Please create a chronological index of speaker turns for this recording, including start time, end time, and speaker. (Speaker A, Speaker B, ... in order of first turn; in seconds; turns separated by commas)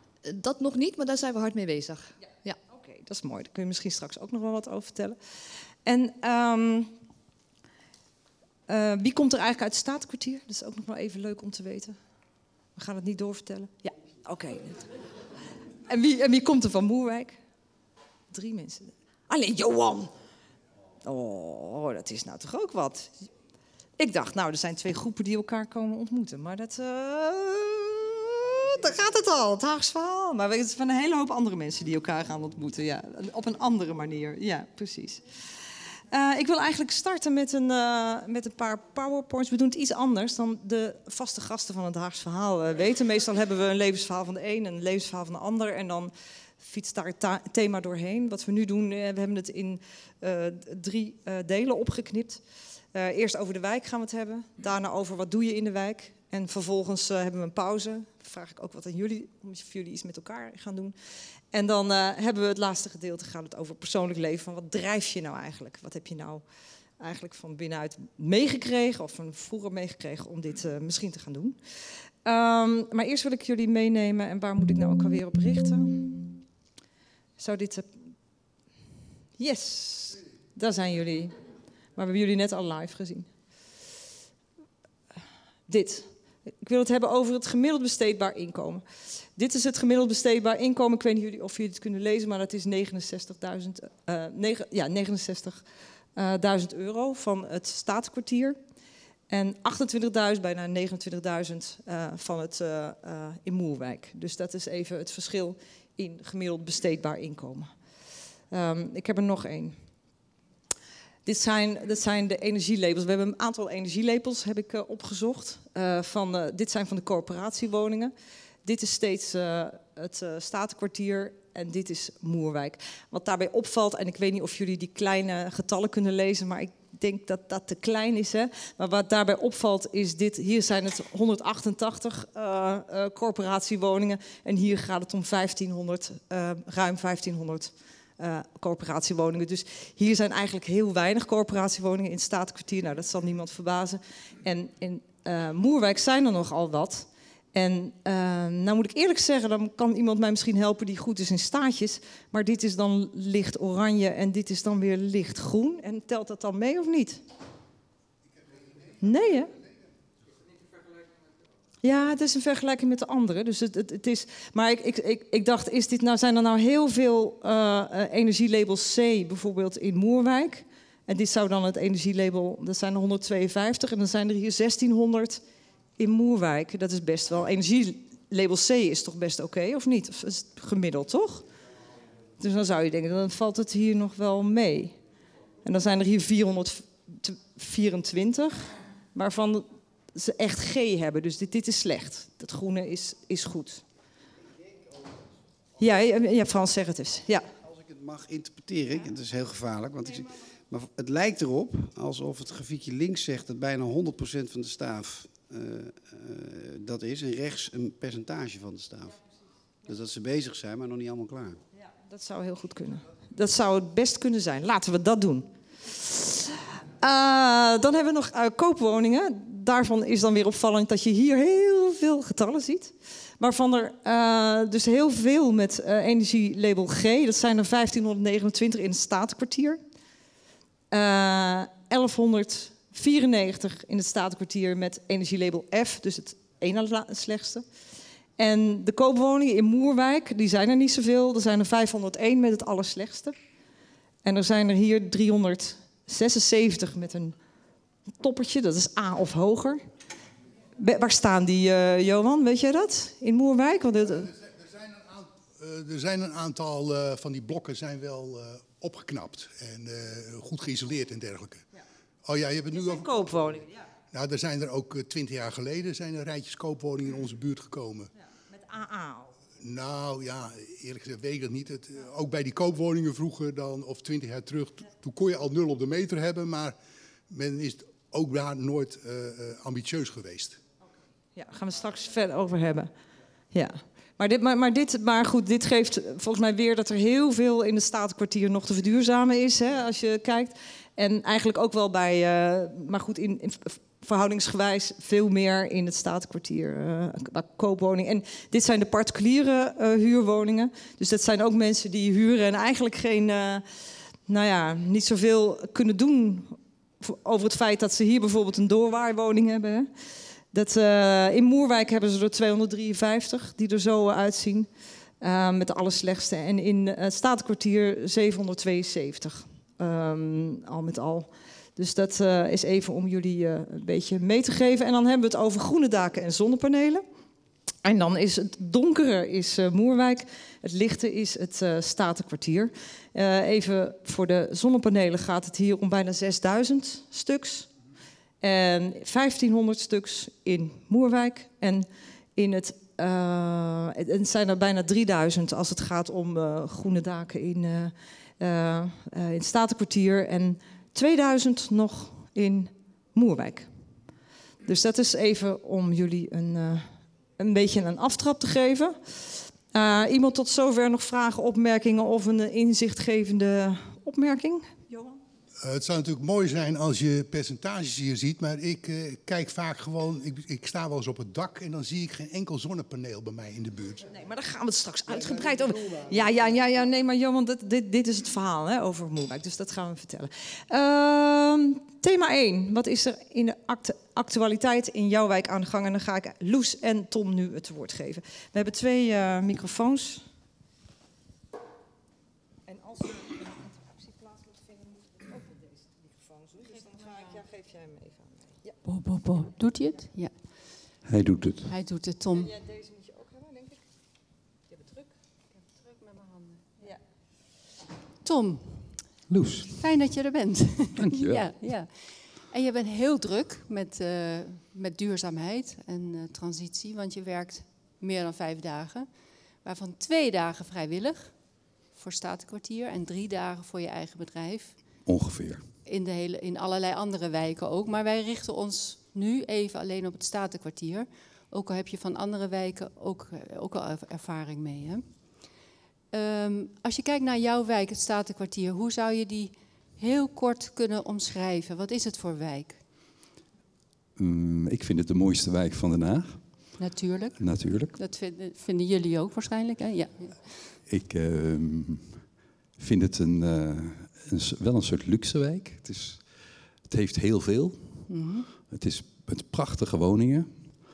Speaker A: 0.2-2.6, Speaker B: 2.7-5.2, Speaker B: 5.8-6.9, Speaker B: 8.7-12.0, Speaker B: 12.8-14.8, Speaker B: 15.9-17.4, Speaker B: 18.3-20.1, Speaker B: 21.0-23.1, Speaker B: 24.0-35.5, Speaker B: 36.1-52.4, Speaker B: 52.9-60.9, Speaker B: 61.5-66.4, Speaker B: 67.0-71.6, Speaker B: 72.2-76.3, Speaker B: 77.4-77.9, Speaker B: 79.4-81.3, Speaker B: 82.0-83.3, Speaker B: 85.7-86.1, Speaker B: 86.6-88.8, Speaker B: 89.3-95.6, Speaker B: 96.2-98.6, Speaker B: 99.3-107.7, Speaker B: 108.5-109.8, Speaker B: 111.2-118.1, Speaker B: 118.6-157.2, Speaker B: 159.0-159.5, Speaker B: 161.8-175.4, Speaker B: 176.0-181.4, Speaker B: 182.4-184.9, Speaker B: 185.6-193.8, Speaker B: 195.8-197.4, Speaker C: 197.6-209.1, Speaker C: 209.8-211.6, Speaker B: 211.8-229.8, Speaker B: 230.9-237.6, Speaker B: 238.4-243.3, Speaker B: 244.2-247.3, Speaker B: 248.2-249.8, Speaker B: 250.8-254.3, Speaker D: 254.2-261.6, Speaker D: 262.2-263.6, Speaker B: 262.7-263.8, Speaker D: 264.1-268.1, Speaker B: 268.5-269.3, Speaker D: 269.6-276.8, Speaker D: 277.3-280.6, Speaker B: 281.4-282.9, Speaker B: 283.5-303.6, Speaker B: 304.3-309.9, Speaker B: 310.5-314.7, Speaker B: 315.2-327.0, Speaker B: 327.8-337.7, Speaker B: 338.4-353.7, Speaker B: 354.6-359.0, Speaker B: 359.7-364.7, Speaker D: 365.6-374.1, Speaker B: 374.1-390.2, Speaker D: 375.1-376.5, Speaker B: 392.7-398.7, Speaker E: 398.8-400.3, Speaker F: 401.0-401.7, Speaker E: 401.7-402.5, Speaker B: 402.4-403.8, Speaker B: 404.8-405.1, Speaker E: 406.1-406.6, Speaker E: 408.2-408.9, Speaker F: 409.3-409.9, Speaker E: 409.8-411.9, Speaker F: 411.0-411.5, Speaker E: 412.5-419.1, Speaker E: 419.6-421.3, Speaker E: 421.9-424.8, Speaker F: 425.1-425.6, Speaker E: 425.9-435.0, Speaker E: 436.1-442.8, Speaker F: 444.2-446.4, Speaker E: 446.8-447.4, Speaker F: 447.4-447.9, Speaker E: 447.9-450.4, Speaker F: 450.9-452.2, Speaker F: 452.8-456.2, Speaker F: 456.9-457.9, Speaker E: 458.1-458.5, Speaker F: 458.7-460.5